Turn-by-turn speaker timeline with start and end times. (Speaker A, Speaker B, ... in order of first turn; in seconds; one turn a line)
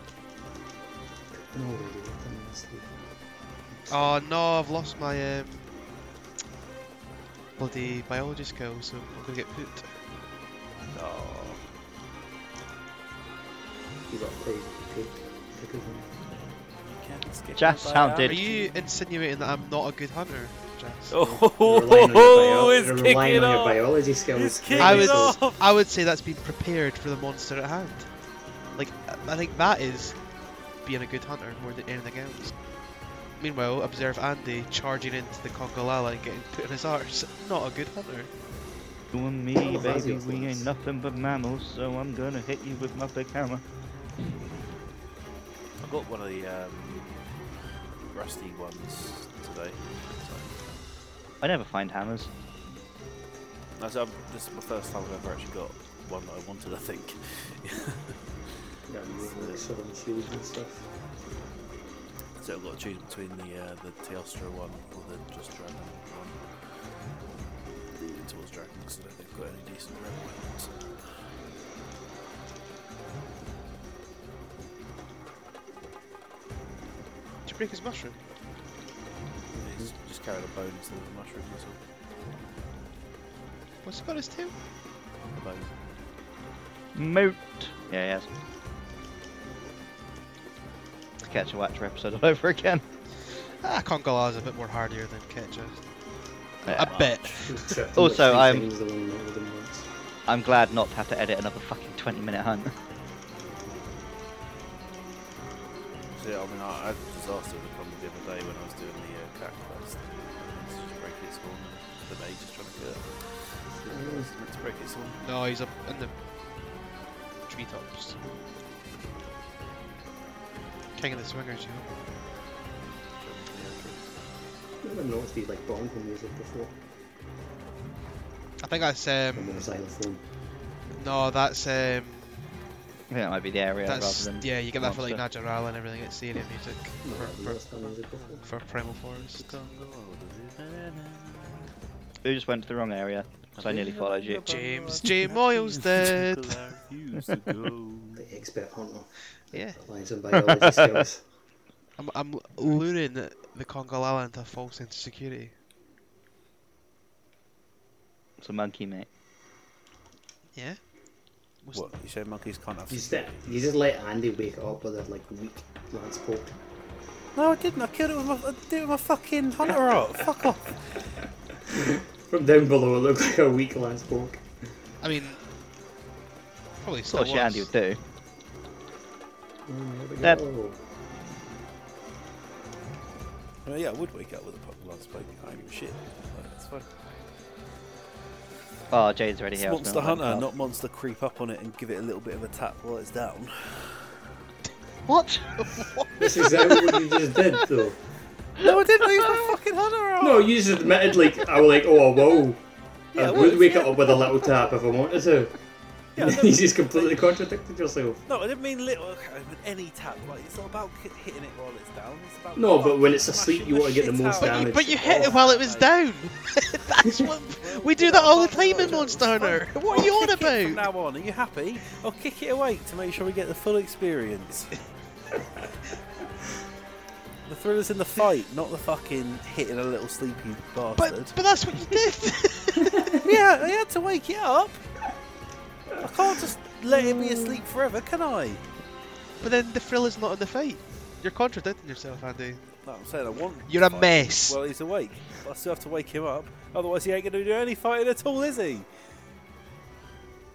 Speaker A: 1.3-2.9
Speaker B: 3.9-5.7
Speaker B: 7.6-10.0
Speaker C: 10.9-11.6
Speaker A: 14.1-16.1
Speaker C: 16.8-18.7
Speaker D: 17.5-18.4
Speaker B: 18.2-21.2
Speaker C: 21.1-25.6
Speaker A: 21.2-25.4
Speaker B: 24.8-28.1
Speaker B: 28.7-32.5
Speaker B: 33.4-38.3
Speaker D: 39.1-43.6
Speaker A: 39.6-40.7
Speaker C: 45.8-47.1
Speaker C: 48.1-50.8
Speaker D: 51.4-52.3
Speaker C: 53.8-58.2
Speaker A: 58.9-60.9
Speaker C: 59.1-59.7
Speaker C: 62.4-66.4
Speaker C: 67.9-70.9
Speaker B: 77.4-78.2
Speaker A: 79.5-79.9
Speaker C: 79.6-81.8
Speaker B: 83.8-84.5
Speaker C: 85.3-85.7
Speaker D: 86.9-88.3
Speaker D: 91.3-92.8
Speaker B: 93.5-95.8
Speaker B: 96.6-97.8
Speaker D: 96.6-96.9
Speaker C: 96.7-97.5
Speaker A: 97.5-99.9
Speaker D: 97.9-98.6
Speaker D: 100.3-102.7
Speaker C: 106.2-115.2
Speaker A: 113.8-114.3
Speaker B: 115.2-116.1
Speaker B: 117.5-118.2
Speaker B: 120.9-121.8
Speaker C: 123.2-124.0
Speaker A: 124.8-126.7
Speaker B: 128.6-129.7
Speaker A: 129.3-130.2
Speaker B: 130.9-132.5
Speaker D: 133.1-135.2
Speaker B: 133.8-139.6
Speaker A: 137.0-138.5
Speaker C: 139.2-141.7
Speaker D: 142.2-144.4
Speaker C: 143.5-148.2
Speaker B: 144.4-146.7
Speaker A: 148.2-151.2
Speaker B: 149.5-149.8
Speaker B: 152.0-155.5
Speaker D: 158.4-159.1
Speaker B: 160.5-160.8
Speaker B: 161.6-161.9
Speaker C: 161.7-163.5
Speaker A: 162.9-166.6
Speaker C: 167.3-170.8
Speaker A: 171.7-174.4
Speaker B: 175.0-175.4
Speaker B: 176.8-177.7
Speaker D: 177.1-178.0
Speaker A: 179.7-180.8
Speaker C: 183.6-186.9
Speaker D: 188.9-190.5
Speaker C: 189.6-194.2
Speaker D: 195.1-197.0
Speaker A: 196.2-198.0
Speaker C: 198.6-201.3
Speaker D: 198.6-199.4
Speaker A: 200.2-202.6
Speaker C: 203.1-204.5
Speaker A: 203.1-205.6
Speaker C: 206.1-207.4
Speaker A: 206.2-208.2
Speaker C: 208.2-216.0
Speaker A: 212.5-215.4
Speaker B: 214.4-220.9
Speaker C: 217.1-224.7
Speaker C: 227.4-231.4
Speaker B: 230.9-233.1
Speaker C: 233.2-234.8
Speaker C: 235.9-238.6
Speaker A: 237.0-237.6
Speaker B: 239.4-242.7
Speaker C: 242.8-248.9
Speaker B: 243.7-244.6